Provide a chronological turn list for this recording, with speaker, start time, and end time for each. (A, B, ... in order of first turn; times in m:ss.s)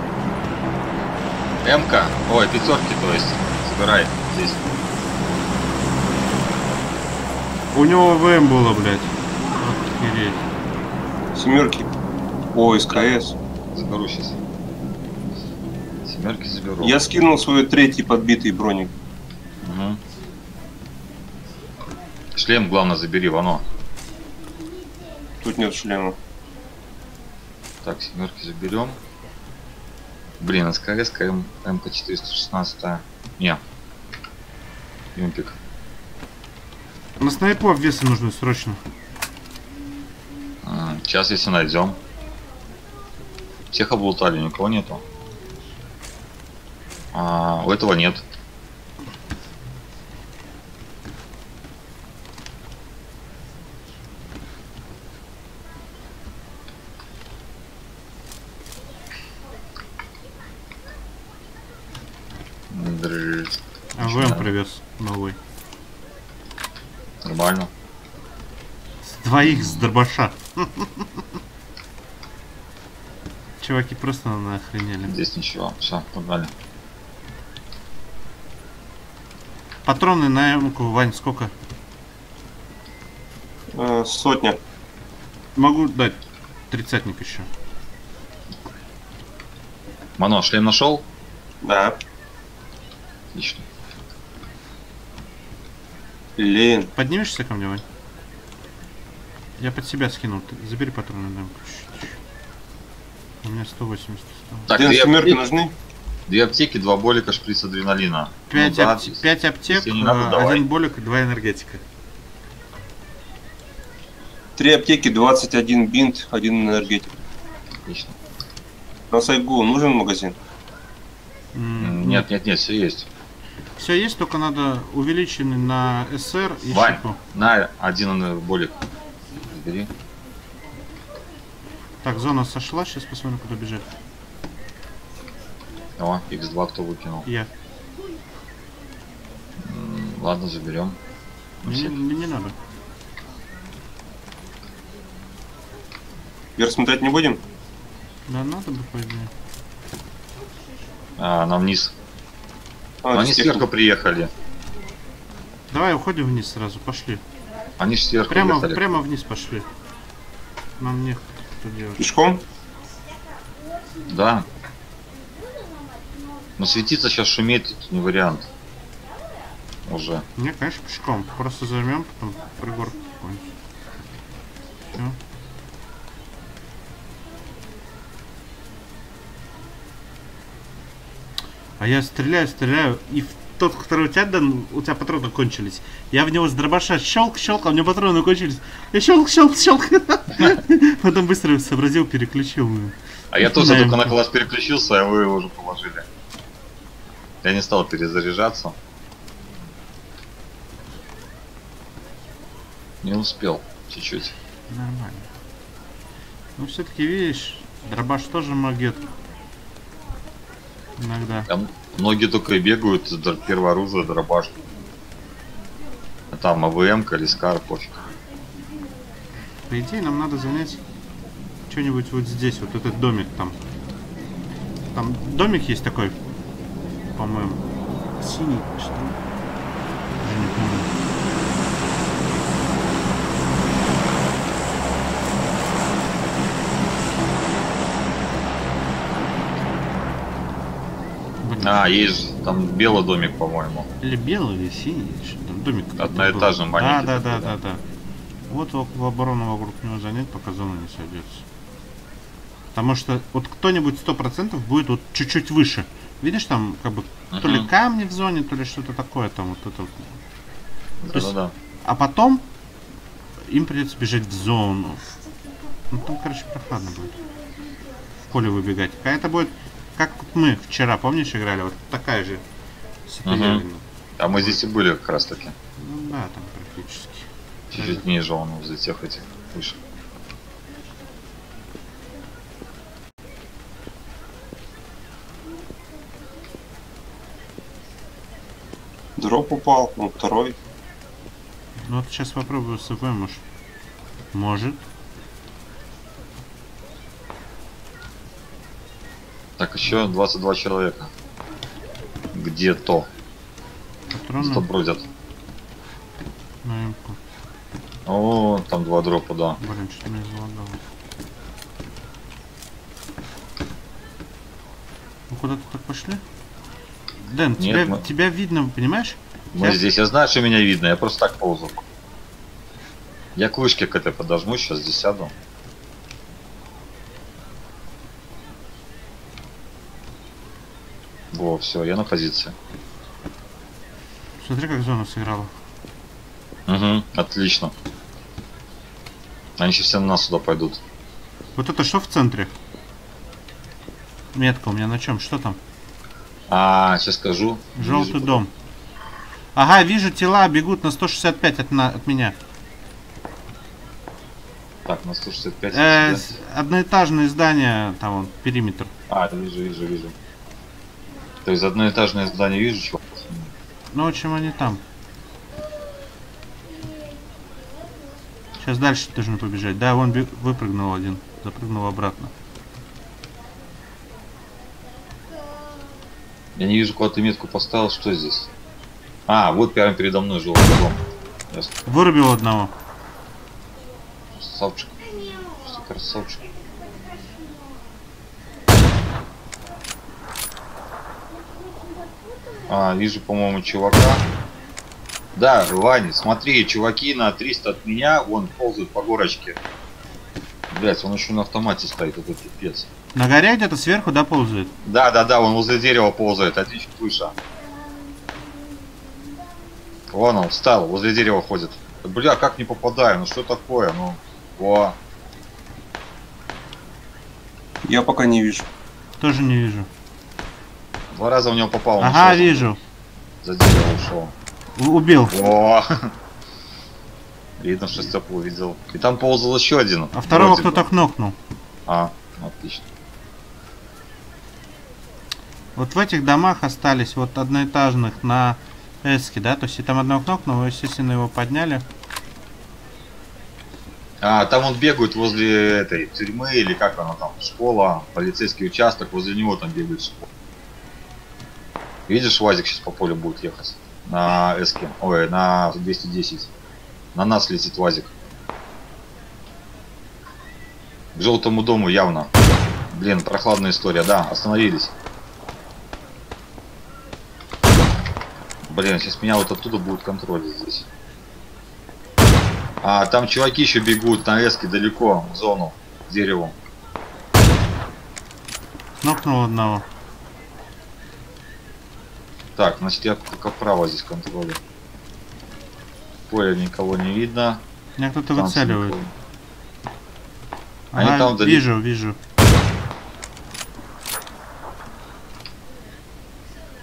0:01.6-0:04.7 A
0:07.7-0:10.4 B
0:11.4-0:11.9 C
0:12.5-0:13.4 C
0:13.7-0:14.4 A
0:16.1-0:17.0 A
0:16.8-0:18.9 C
0:19.6-0:20.0 A
0:22.4-0:23.6 A
0:25.4-0:26.2 C
0:27.8-0:29.0 A
0:30.4-0:33.6 A
0:35.1-0:35.6 A
0:37.2-0:38.8 B
0:40.6-0:42.0 A
0:43.7-0:45.0 A
0:47.1-0:48.2 A
1:02.7-1:04.5 A
1:04.0-1:05.4 B
1:07.2-1:07.7 A
1:09.0-1:11.2 B
1:09.4-1:09.9 A
1:13.6-1:15.2 B
1:15.1-1:16.5 A
1:19.9-1:21.5 B
1:23.7-1:24.6 C
1:25.6-1:27.5 B
1:30.2-1:31.0 A
1:31.6-1:32.0 C
1:33.3-1:33.6 A
1:36.4-1:36.9 C
1:37.0-1:37.8 B
1:39.6-1:42.2 B
1:43.4-1:44.7 B
1:44.7-1:45.4 A
1:44.7-1:45.7 C
1:46.3-1:50.6 A
1:48.5-1:51.8 B
1:54.6-1:57.1 C
1:57.8-1:58.1 A
1:59.1-2:00.4 C
2:01.5-2:02.3 B
2:01.8-2:03.1 A
2:03.8-2:07.2 B
2:06.7-2:08.8 A
2:09.4-2:09.9 A
2:12.0-2:13.9 B
2:16.0-2:17.3 A
2:19.6-2:21.0 A
2:21.6-2:22.0 A
2:21.6-2:22.6 B
2:26.6-2:27.4 C
2:28.3-2:29.3 B
2:31.2-2:31.9 A
2:33.0-2:33.6 C
2:33.1-2:34.3 A
2:35.7-2:37.2 B
2:37.8-2:38.8 A
2:38.3-2:39.7 B
2:40.8-2:42.1 B
2:42.0-2:42.4 C
2:44.1-2:44.5 A
2:46.6-2:48.5 A
2:49.9-2:50.2 A
2:50.4-2:53.5 B
3:01.8-3:14.2 B
3:13.3-3:16.1 A
3:17.4-3:18.8 A
3:23.0-3:24.4 A
3:24.7-3:25.3 B
3:26.6-3:29.1 B
3:31.0-3:31.5 B
3:31.5-3:34.6 A
3:36.3-3:38.0 A
3:39.7-3:40.8 B
3:41.7-3:43.6 B
3:44.9-3:46.2 B
3:47.1-3:47.6 B
3:48.2-3:49.2 B
3:50.2-3:50.9 B
4:01.4-4:01.8 B
4:01.6-4:03.9 A
4:04.0-4:07.8 B
4:06.0-4:07.6 A
4:08.5-4:11.4 B
4:12.7-4:20.2 B
4:17.3-4:17.7 A
4:21.0-4:21.5 A
4:21.1-4:22.4 B
4:23.5-4:25.1 B
4:25.9-4:27.2 B
4:28.3-4:32.4 B
4:33.1-4:34.6 B
4:33.2-4:33.6 A
4:34.2-4:35.6 A
4:35.8-4:38.1 B
4:37.7-4:39.8 A
4:49.2-4:50.6 C
4:51.8-4:53.4 B
4:54.3-4:54.8 B
4:59.6-5:01.1 A
5:02.3-5:03.1 A
5:04.1-5:04.6 B
5:04.4-5:05.0 A
5:06.6-5:07.2 B
5:08.1-5:09.6 A
5:09.6-5:10.8 B
5:15.3-5:16.2 B
5:17.3-5:19.8 B
5:17.6-5:18.0 A
5:19.5-5:21.8 A
5:23.4-5:25.3 A
5:31.3-5:32.6 A
5:34.4-5:35.5 B
5:36.7-5:37.7 A
5:39.6-5:40.8 A
5:41.6-5:42.5 B
5:44.3-5:45.6 B
5:46.5-5:48.4 A
5:47.8-5:48.5 B
5:49.6-5:52.4 B
5:54.9-5:56.3 A
5:55.7-5:58.9 B
5:59.1-6:00.1 A
6:01.4-6:03.5 A
6:03.9-6:04.8 B
6:08.6-6:12.3 B
6:16.6-6:18.5 A
6:19.3-6:21.8 A
6:21.9-6:22.7 B
6:24.3-6:26.5 A
6:32.6-6:34.2 A
6:35.4-6:39.6 A
6:40.7-6:42.9 A
6:43.1-6:44.7 B
6:44.8-6:47.3 A
6:50.1-6:55.0 A
6:57.8-6:58.6 C
6:59.2-6:59.9 B
7:01.1-7:02.7 A
7:02.0-7:02.8 B
7:03.4-7:04.4 A
7:04.8-7:05.4 B
7:05.3-7:06.1 A
7:07.6-7:10.9 A
7:10.1-7:11.4 B
7:11.9-7:12.9 A
7:15.8-7:21.8 B
7:24.2-7:30.3 A
7:32.1-7:36.5 A
7:37.1-7:38.1 A
7:41.1-7:42.3 A
7:42.9-7:44.9 A
7:48.7-7:50.9 A
7:52.8-7:56.6 A
7:59.0-7:59.8 B
8:02.6-8:04.6 A
8:06.3-8:07.6 A
8:08.0-8:09.0 B
8:08.3-8:09.1 A
8:10.9-8:12.2 B
8:10.9-8:11.7 A